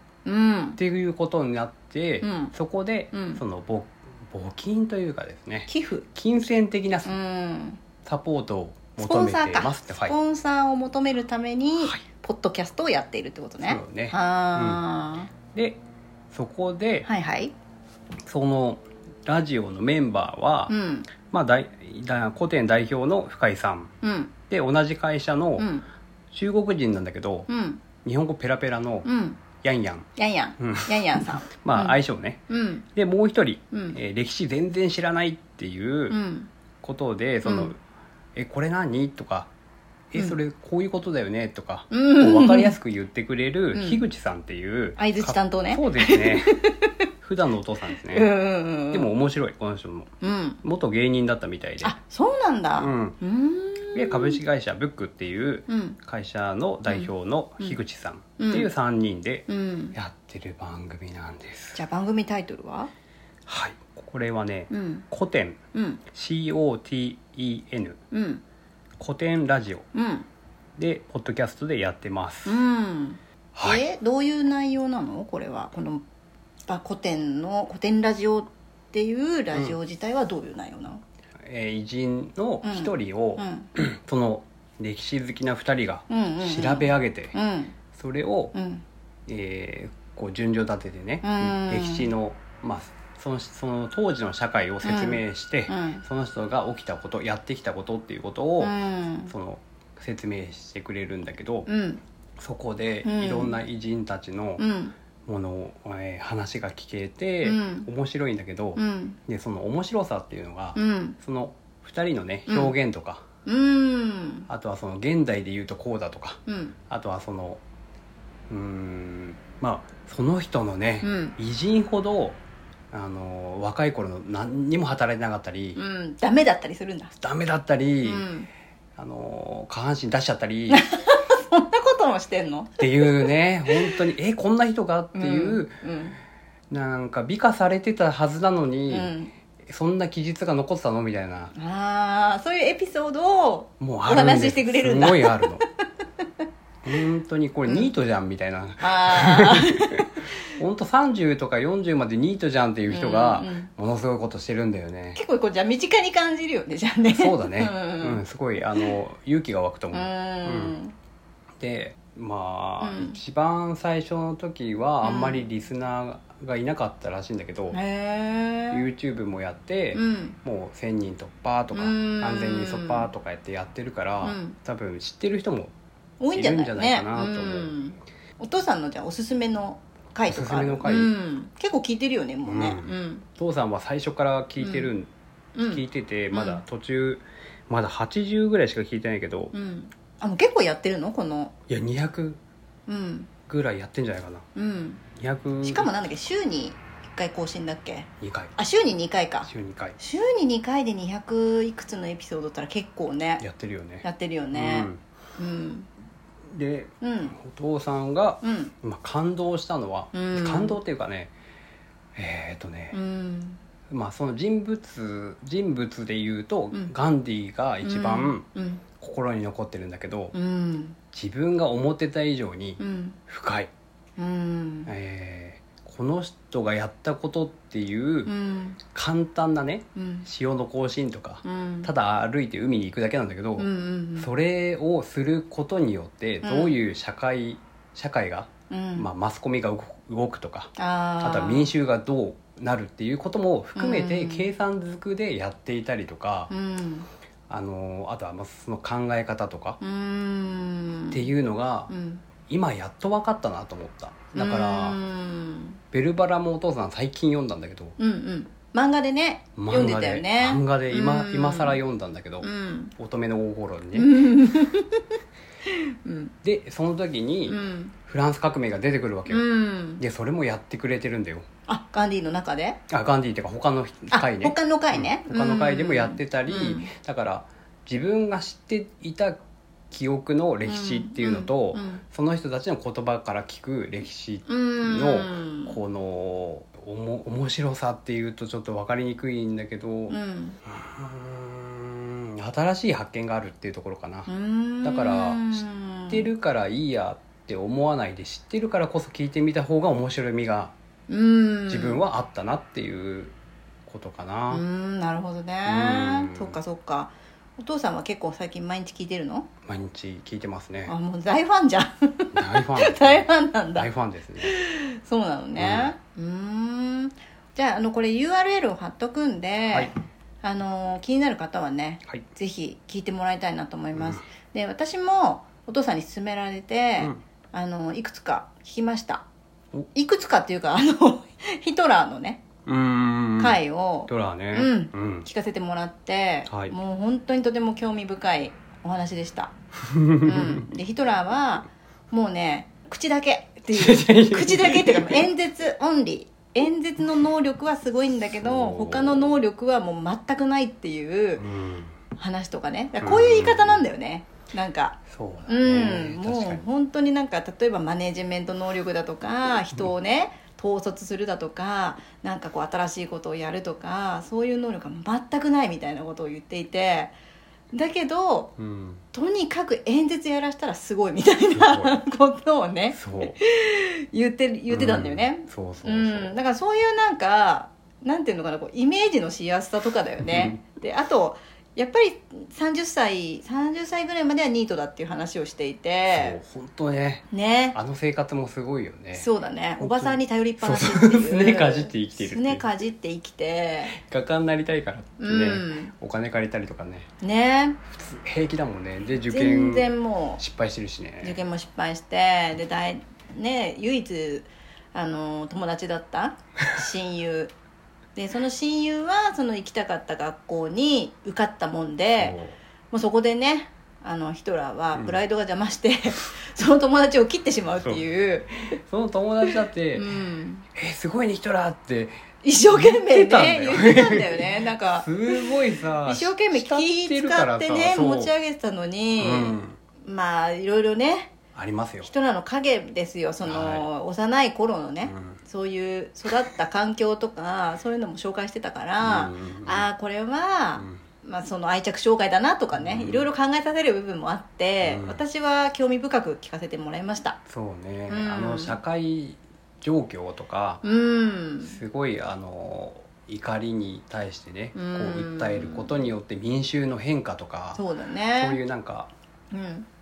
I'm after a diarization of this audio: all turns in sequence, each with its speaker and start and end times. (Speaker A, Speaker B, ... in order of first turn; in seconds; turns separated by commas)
Speaker A: 0.2-0.8, Speaker B: 0.8-7.1, Speaker A: 2.2-2.5, Speaker A: 3.1-3.4, Speaker A: 5.7-6.0, Speaker A: 7.0-7.8, Speaker B: 8.0-10.1, Speaker A: 9.0-15.3, Speaker B: 13.6-14.8, Speaker B: 15.5-15.8, Speaker B: 16.3-17.1, Speaker A: 17.0-17.5, Speaker B: 18.2-20.7, Speaker A: 20.7-21.1, Speaker B: 21.3-23.9, Speaker A: 24.0-24.3, Speaker B: 24.5-25.7, Speaker A: 25.6-25.9, Speaker B: 26.3-27.5, Speaker A: 27.5-27.8, Speaker B: 28.0-29.1, Speaker A: 29.0-29.4, Speaker B: 29.6-32.4, Speaker A: 30.2-32.0, Speaker A: 32.5-32.9, Speaker B: 32.9-36.2, Speaker A: 33.7-34.0, Speaker A: 36.1-36.5, Speaker B: 36.8-37.8, Speaker A: 37.4-37.7, Speaker B: 38.4-39.5, Speaker B: 40.1-46.6, Speaker A: 41.9-42.8, Speaker A: 43.7-44.0, Speaker A: 45.0-46.9, Speaker B: 47.2-48.3, Speaker A: 48.0-49.1, Speaker B: 48.9-50.1, Speaker A: 50.2-50.6, Speaker B: 50.6-52.0, Speaker A: 51.8-54.4, Speaker B: 52.8-53.2, Speaker B: 53.9-61.8, Speaker A: 55.7-56.0, Speaker A: 56.9-57.8, Speaker A: 58.4-58.7, Speaker A: 59.5-60.0, Speaker A: 61.7-62.9, Speaker B: 63.5-65.6, Speaker A: 64.7-65.0, Speaker A: 65.7-66.0, Speaker B: 66.1-68.0, Speaker A: 68.1-68.4, Speaker B: 69.0-69.8, Speaker A: 69.9-70.3, Speaker B: 70.8-72.6, Speaker A: 72.5-76.0, Speaker B: 73.5-73.8, Speaker A: 76.7-81.0, Speaker B: 81.4-87.3, Speaker A: 82.6-83.7, Speaker A: 86.1-87.8, Speaker B: 87.9-88.5, Speaker A: 88.5-88.8, Speaker B: 89.3-98.7, Speaker A: 91.2-92.1, Speaker A: 94.8-96.0, Speaker A: 98.6-99.3, Speaker B: 99.3-101.7, Speaker A: 101.7-102.0, Speaker B: 102.4-104.6, Speaker A: 103.0-103.6, Speaker A: 104.6-104.9, Speaker B: 105.2-113.2, Speaker A: 107.4-107.9, Speaker A: 108.8-109.2, Speaker A: 110.7-111.2, Speaker A: 112.5-112.7, Speaker A: 113.5-114.5, Speaker B: 114.5-117.6, Speaker A: 116.5-116.8, Speaker B: 118.5-122.4, Speaker A: 121.0-121.3, Speaker B: 122.9-125.8, Speaker A: 125.8-127.1, Speaker B: 127.2-128.3, Speaker A: 128.0-128.5, Speaker B: 129.0-130.9, Speaker A: 130.7-134.0, Speaker B: 132.8-135.8, Speaker A: 135.1-136.2, Speaker B: 136.7-139.1, Speaker A: 138.9-139.3, Speaker B: 139.7-141.5, Speaker A: 141.5-145.5, Speaker B: 143.8-145.6, Speaker B: 146.8-155.2, Speaker A: 148.8-150.3, Speaker A: 152.9-153.7, Speaker A: 155.1-158.2, Speaker B: 157.1-160.8, Speaker A: 159.9-160.9, Speaker B: 161.6-167.8, Speaker A: 162.8-163.2, Speaker A: 165.0-165.4, Speaker A: 167.7-168.8, Speaker B: 168.7-175.7, Speaker A: 169.9-170.4, Speaker A: 171.7-173.1, Speaker A: 174.2-174.6, Speaker A: 176.2-183.2, Speaker B: 176.3-177.7, Speaker B: 180.3-181.1, Speaker B: 182.4-185.1, Speaker A: 184.6-184.9, Speaker A: 185.6-185.8, Speaker B: 185.7-189.5, Speaker A: 186.3-186.6, Speaker A: 189.5-191.5, Speaker B: 191.7-192.4, Speaker A: 192.9-193.3, Speaker B: 193.5-194.4, Speaker A: 194.5-195.0, Speaker B: 195.2-195.9, Speaker A: 195.6-203.4, Speaker B: 198.2-198.5, Speaker B: 199.4-200.0, Speaker B: 203.4-205.0, Speaker A: 204.0-205.9, Speaker B: 206.5-211.3, Speaker A: 207.0-207.4, Speaker A: 208.4-208.7, Speaker A: 210.1-210.8, Speaker B: 212.1-213.0, Speaker A: 212.9-213.6, Speaker B: 213.9-218.4, Speaker A: 217.8-218.8, Speaker B: 219.0-220.3, Speaker A: 220.3-221.0, Speaker B: 221.1-223.7, Speaker A: 222.8-223.2, Speaker A: 224.2-224.9, Speaker B: 224.9-228.3, Speaker A: 228.2-228.8, Speaker B: 228.9-246.5, Speaker A: 229.9-230.2, Speaker A: 231.4-231.9, Speaker A: 233.6-234.3, Speaker A: 236.4-236.8, Speaker A: 238.7-239.1, Speaker A: 240.8-241.7, Speaker A: 243.8-244.5, Speaker A: 246.5-247.1, Speaker B: 247.5-249.8, Speaker A: 249.8-251.3, Speaker B: 251.1-251.9, Speaker A: 251.9-252.2, Speaker B: 252.5-255.0, Speaker A: 254.3-255.8, Speaker B: 255.9-257.9, Speaker A: 258.0-261.8, Speaker B: 259.6-264.2, Speaker A: 262.4-262.9, Speaker A: 263.9-265.1, Speaker A: 265.6-266.3, Speaker B: 266.4-269.4, Speaker A: 267.5-267.9, Speaker A: 269.3-270.0, Speaker B: 270.0-271.4, Speaker A: 271.7-272.8, Speaker B: 272.9-294.3, Speaker A: 274.1-276.9, Speaker A: 280.6-282.0, Speaker A: 284.5-285.8, Speaker A: 290.1-290.6, Speaker A: 294.3-296.3, Speaker B: 294.8-300.7, Speaker A: 301.1-302.0, Speaker B: 301.7-303.3, Speaker B: 303.9-304.6, Speaker A: 304.5-309.5, Speaker B: 305.6-306.6, Speaker B: 309.6-310.9, Speaker A: 310.9-313.9, Speaker B: 312.3-314.6, Speaker A: 314.4-329.2, Speaker B: 315.6-315.9, Speaker B: 323.9-324.2, Speaker A: 329.9-332.4, Speaker B: 332.6-335.3, Speaker A: 333.4-339.5, Speaker B: 336.5-336.7, Speaker B: 339.8-340.6, Speaker A: 340.2-351.4, Speaker B: 343.7-345.3, Speaker B: 348.4-349.4, Speaker B: 351.4-351.9, Speaker A: 352.1-367.1, Speaker B: 353.0-353.9, Speaker B: 355.1-356.6, Speaker A: 367.7-368.5, Speaker B: 368.6-369.0, Speaker A: 369.1-386.4, Speaker B: 371.5-372.0, Speaker B: 372.9-373.3, Speaker B: 374.7-376.3, Speaker B: 380.2-380.5, Speaker B: 386.1-392.6, Speaker A: 387.3-387.8, Speaker A: 389.1-393.9, Speaker B: 393.9-397.1, Speaker A: 395.2-395.9, Speaker A: 397.2-397.8, Speaker B: 397.9-401.4, Speaker A: 399.2-400.4, Speaker A: 401.2-407.5, Speaker A: 408.1-412.4, Speaker B: 412.1-412.6, Speaker A: 412.9-418.8, Speaker B: 414.9-415.2, Speaker B: 418.7-420.1, Speaker A: 419.5-420.6, Speaker B: 420.7-422.1, Speaker A: 422.4-425.5, Speaker B: 422.7-428.3, Speaker A: 426.0-431.3, Speaker B: 429.1-429.8, Speaker B: 431.5-432.1, Speaker A: 432.0-447.4, Speaker B: 433.4-433.9, Speaker B: 435.0-435.4, Speaker B: 439.0-439.9, Speaker B: 442.7-443.3, Speaker B: 444.8-445.2, Speaker B: 447.5-450.8, Speaker A: 448.1-448.8, Speaker A: 450.8-451.8, Speaker B: 451.6-457.8, Speaker A: 454.7-456.1, Speaker A: 457.7-458.6, Speaker B: 458.4-459.1, Speaker A: 459.5-459.9